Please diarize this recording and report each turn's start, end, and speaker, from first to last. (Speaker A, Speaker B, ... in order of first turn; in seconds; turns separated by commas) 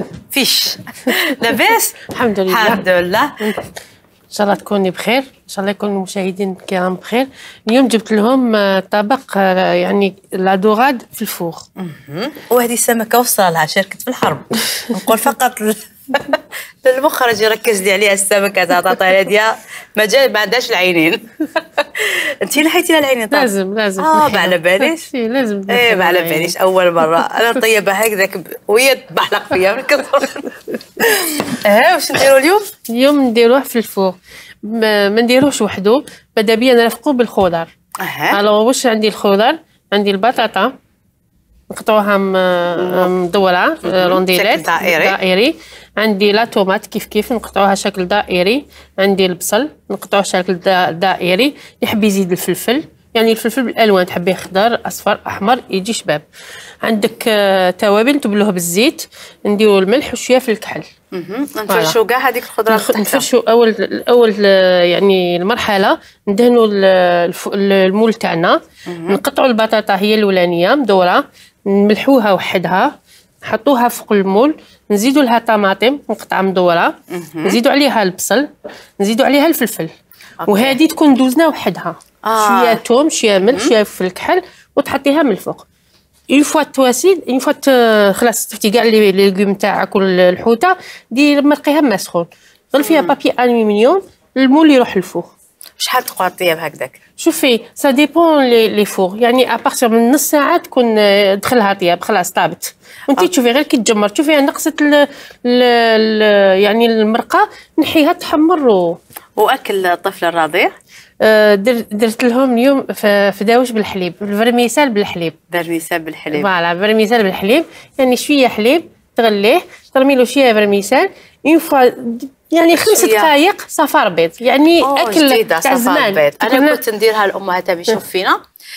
Speaker A: 0.3-2.0, Speaker B: 2.1-2.8, Speaker A: 2.5-3.3, Speaker B: 3.4-3.7, Speaker B: 4.3-11.7, Speaker A: 11.8-25.1, Speaker B: 23.3-26.5, Speaker A: 25.7-30.5, Speaker A: 31.6-32.7, Speaker B: 32.9-37.7, Speaker A: 38.0-38.4, Speaker B: 38.3-40.7, Speaker B: 41.7-56.2, Speaker A: 42.8-43.1, Speaker A: 43.8-45.2, Speaker B: 56.8-60.9, Speaker A: 61.1-63.3, Speaker B: 61.7-61.9, Speaker B: 62.7-79.9, Speaker A: 68.9-69.2, Speaker A: 77.1-77.6, Speaker A: 80.4-80.8, Speaker B: 80.5-85.7, Speaker A: 82.2-82.8, Speaker B: 86.3-95.3, Speaker A: 92.8-93.1, Speaker A: 95.8-97.0, Speaker B: 97.2-109.0, Speaker A: 109.4-110.7, Speaker B: 111.2-115.4, Speaker A: 115.5-116.5, Speaker B: 116.3-126.8, Speaker A: 122.8-123.3, Speaker A: 124.8-128.4